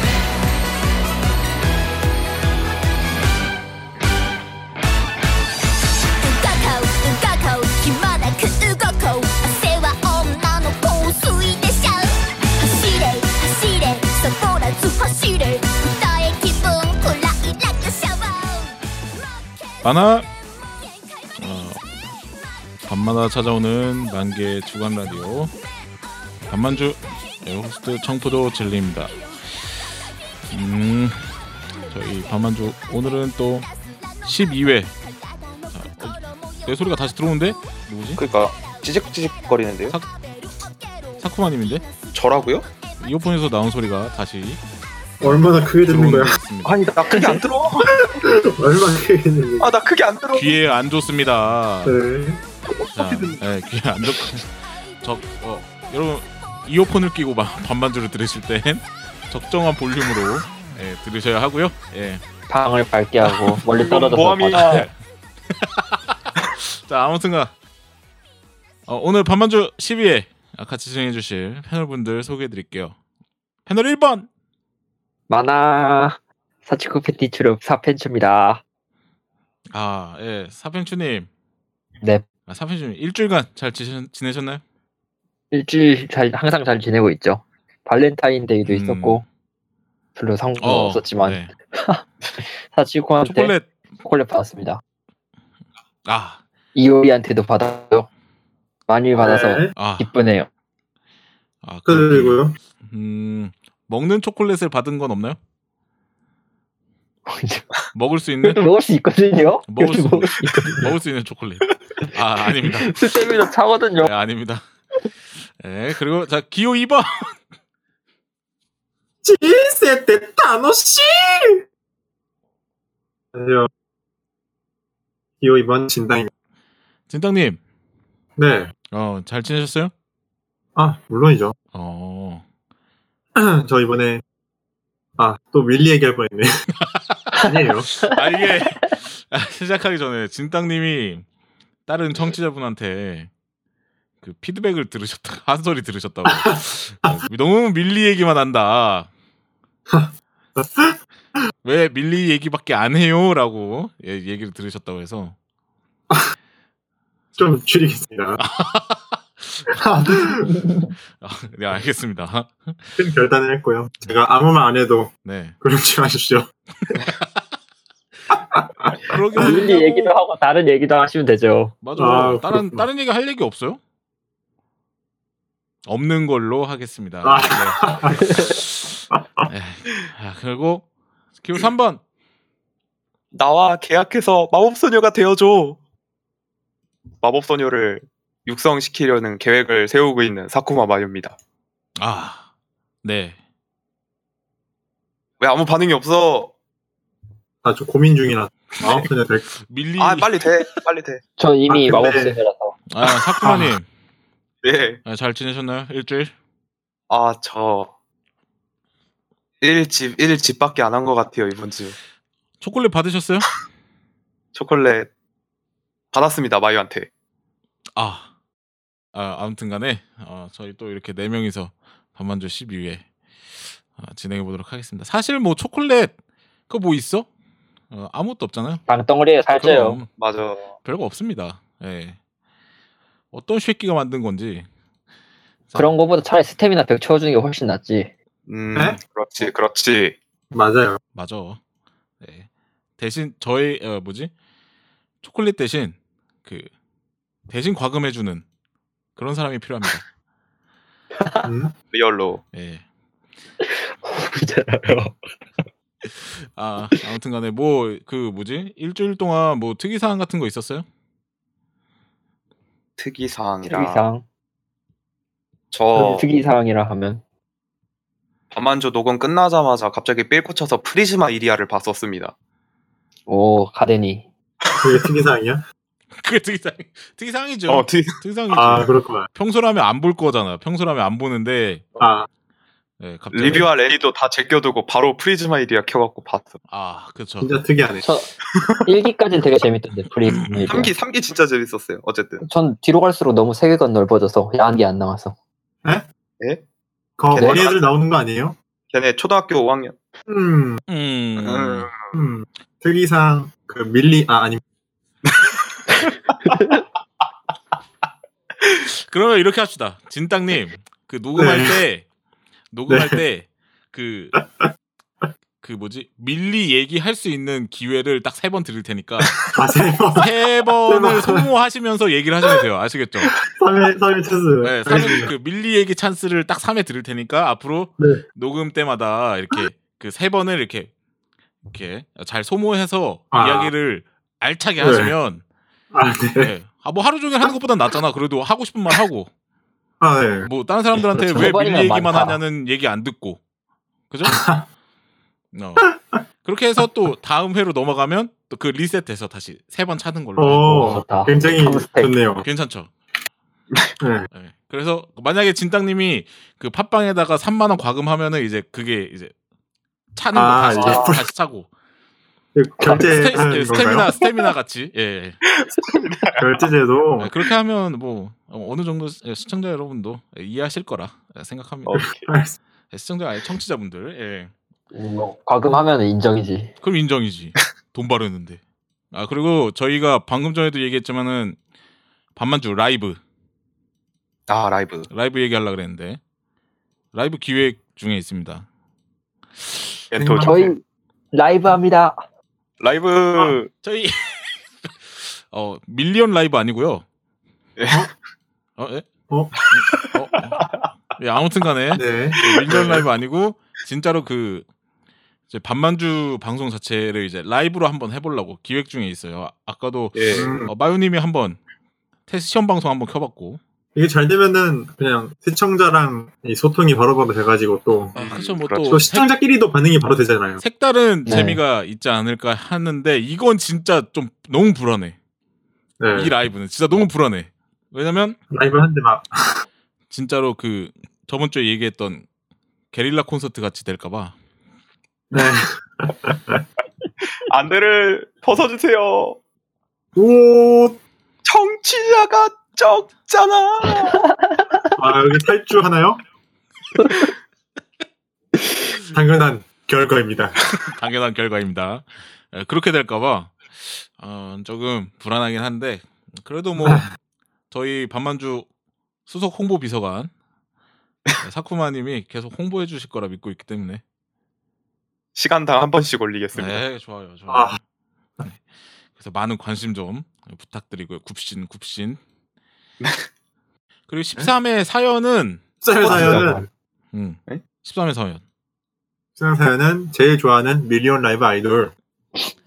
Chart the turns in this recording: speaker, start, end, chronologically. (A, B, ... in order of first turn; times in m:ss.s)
0:06.2-0:20.3 A
0:19.8-0:20.3 B
0:20.9-0:21.4 A
0:21.4-0:21.8 B
0:22.9-0:25.5 B
0:26.5-0:29.1 B
0:29.1-0:29.5 A
0:30.5-0:31.3 B
0:31.7-0:43.0 A
0:31.9-0:33.7 B
0:34.2-0:34.9 B
0:35.7-0:38.2 B
0:38.2-0:40.0 C
0:41.2-0:41.8 B
0:42.1-0:42.6 C
0:43.0-0:44.6 B
0:45.2-0:46.4 D
0:45.2-0:46.8 B
0:46.6-0:48.1 C
0:47.8-0:49.7 D
0:49.6-0:50.6 C
0:50.3-0:52.0 B
0:51.8-0:52.4 D
0:52.9-0:54.5 B
0:55.0-1:02.2 B
1:02.5-1:04.9 E
1:03.3-1:03.6 B
1:03.7-1:04.9 C
1:05.5-1:07.5 B
1:08.9-1:13.0 B
1:13.7-1:14.3 B
1:15.3-1:18.6 E
1:19.7-1:21.3 B
1:22.5-1:24.6 B
1:25.5-1:29.2 E
1:28.7-1:29.2 B
1:30.1-1:34.8 E
1:30.6-1:31.5 B
1:33.2-1:33.7 B
1:36.0-1:36.4 B
1:36.7-1:38.1 E
1:38.9-1:40.5 E
1:39.2-1:39.7 D
1:39.8-1:40.1 B
1:41.6-1:45.4 B
1:41.8-1:42.6 D
1:47.3-1:47.7 E
1:47.9-1:48.6 B
1:48.4-1:50.9 E
1:49.7-1:53.0 B
1:52.5-1:54.1 E
1:54.0-1:54.6 B
1:55.6-1:57.4 B
1:59.2-2:01.6 D
2:03.3-2:03.7 D
2:05.4-2:06.3 D
2:07.1-2:07.6 B
2:08.4-2:08.7 D
2:08.9-2:09.9 B
2:10.8-2:11.5 D
2:11.7-2:12.4 B
2:13.3-2:14.2 D
2:15.2-2:16.5 D
2:16.8-2:17.4 B
2:17.4-2:17.9 D
2:18.0-2:21.2 B
2:21.9-2:23.3 B
2:24.2-2:29.1 B
2:29.9-2:31.0 D
2:31.6-2:35.4 B
2:37.4-2:38.4 D
2:38.4-2:39.8 B
2:39.8-2:40.5 D
2:40.4-2:40.9 E
2:41.2-2:43.0 B
2:43.0-2:46.5 D
2:45.2-2:45.5 B
2:46.9-2:47.4 B
2:48.3-2:49.7 D
2:49.0-2:50.1 B
2:49.4-2:51.8 E
2:51.8-2:53.8 B
2:52.0-2:52.9 D
2:55.8-3:00.9 B
2:57.2-2:58.4 D
2:59.1-2:59.5 D
3:01.4-3:02.0 B
3:03.3-3:05.8 C
3:07.2-3:11.4 C
3:12.0-3:12.4 B
3:13.0-3:13.4 B
3:15.4-3:16.5 C
3:17.6-3:19.5 D
3:19.6-3:20.4 B
3:20.0-3:21.2 C
3:21.4-3:22.8 E
3:21.7-3:22.4 D
3:22.9-3:23.8 B
3:23.4-3:23.8 D
3:24.6-3:25.0 C
3:25.0-3:26.3 B
3:27.1-3:27.9 C
3:29.6-3:32.0 C
3:32.6-3:33.5 B
3:34.5-3:35.1 C
3:36.1-3:37.1 C
3:38.0-3:38.3 B
3:39.1-3:43.0 B
3:43.9-3:46.1 B
3:46.7-3:47.3 B
3:47.9-3:48.8 B
3:48.9-3:50.0 E
3:49.6-3:50.1 B
3:50.2-3:50.7 C
3:50.8-3:52.2 B
3:53.3-3:54.7 B
3:55.8-3:58.1 E
3:58.5-4:00.2 C
4:00.5-4:01.0 D
4:01.1-4:01.6 B
4:02.2-4:02.5 B
4:03.0-4:04.3 B
4:05.2-4:06.7 B
4:07.5-4:08.4 B
4:09.2-4:10.0 B
4:11.2-4:11.5 E
4:11.4-4:11.7 D
4:11.9-4:12.4 C
4:12.5-4:12.8 B
4:13.7-4:15.2 E
4:16.4-4:20.8 B
4:23.0-4:24.0 C
4:23.6-4:24.2 E
4:25.7-4:26.3 C
4:25.9-4:27.2 E
4:28.5-4:32.3 C
4:33.3-4:34.3 E
4:34.8-4:35.6 D
4:36.2-4:41.8 B
4:37.7-4:38.2 C
4:38.5-4:39.3 D
4:42.0-4:42.3 D
4:43.0-4:43.7 B
4:43.3-4:46.6 C
4:46.7-4:47.5 B
4:47.4-4:48.0 D
4:48.0-4:48.3 E
4:48.9-4:50.9 E
4:50.3-4:50.7 B
4:50.6-4:52.4 C
4:52.4-4:55.3 E
4:57.2-4:58.6 D
4:57.3-4:57.9 C
4:57.4-4:57.6 E
4:58.9-5:00.0 C
5:00.3-5:00.8 D
5:00.9-5:01.9 B
5:01.4-5:02.1 C
5:02.1-5:04.6 D
5:05.2-5:06.1 C
5:06.4-5:06.8 E
5:08.9-5:12.1 B
5:11.4-5:11.8 D
5:12.7-5:14.4 B
5:12.9-5:13.2 D
5:15.6-5:19.5 B
5:19.4-5:20.3 D
5:20.2-5:23.4 B
5:20.8-5:21.4 D
5:23.4-5:25.3 D
5:24.6-5:30.9 B
5:31.7-5:35.4 B
5:33.3-5:33.7 D
5:34.8-5:35.1 D
5:35.9-5:36.5 D
5:36.4-5:39.3 B
5:40.0-5:40.5 D
5:40.4-5:43.4 B
5:41.2-5:42.4 E
5:44.1-5:44.4 B
5:44.3-5:44.6 D
5:45.5-5:45.9 B
5:46.4-5:51.0 B
5:50.4-5:52.4 D
5:50.6-5:52.2 E
5:52.4-5:52.9 B
5:54.0-5:54.3 D
5:54.3-5:59.3 B
6:00.1-6:01.7 B
6:00.3-6:01.3 D
6:00.8-6:01.2 C
6:02.6-6:04.1 D
6:02.9-6:05.4 B
6:05.4-6:06.4 C
6:06.4-6:07.3 D
6:07.2-6:12.1 B
6:11.8-6:12.3 C
6:12.0-6:12.6 D
6:12.9-6:14.5 B
6:14.9-6:16.8 E
6:16.8-6:18.6 B
6:19.1-6:21.6 B
6:22.3-6:23.2 B
6:24.5-6:25.1 C
6:25.1-6:26.2 B
6:27.1-6:28.6 B
6:30.1-6:30.7 C
6:30.2-6:30.6 D
6:30.4-6:30.8 E
6:31.3-6:32.2 E
6:32.8-6:33.7 C
6:33.8-6:37.0 B
6:37.8-6:38.1 C
6:38.8-6:39.1 B
6:39.6-6:40.9 C
6:39.7-6:40.6 B
6:41.2-6:44.6 B
6:41.9-6:43.0 D
6:42.4-6:42.9 C
6:45.5-6:51.6 B
6:50.1-6:50.6 C
6:50.3-6:50.7 D
6:52.3-6:53.6 B
6:53.9-6:58.1 D
6:58.1-6:59.0 C
6:58.1-6:59.3 B
6:58.9-7:00.6 D
7:00.6-7:05.2 B
7:01.2-7:01.6 E
7:06.0-7:06.3 D
7:06.1-7:08.4 B
7:08.5-7:09.6 D
7:10.1-7:12.2 B
7:12.9-7:14.3 B
7:15.3-7:16.6 D
7:17.4-7:19.4 C
7:20.2-7:21.0 D
7:21.4-7:24.3 C
7:25.0-7:26.2 D
7:29.1-7:30.6 D
7:30.9-7:37.1 B
7:36.8-7:37.1 D
7:37.7-7:38.7 B
7:39.3-7:40.3 B
7:41.4-7:44.0 B
7:45.4-7:46.8 C
7:46.6-7:47.8 B
7:47.5-7:47.8 D
7:49.2-7:52.2 B
7:54.1-7:55.6 B
7:55.8-7:56.7 D
7:56.0-7:56.6 C
7:56.1-7:56.6 E
7:57.1-7:58.4 B
7:59.4-8:01.9 D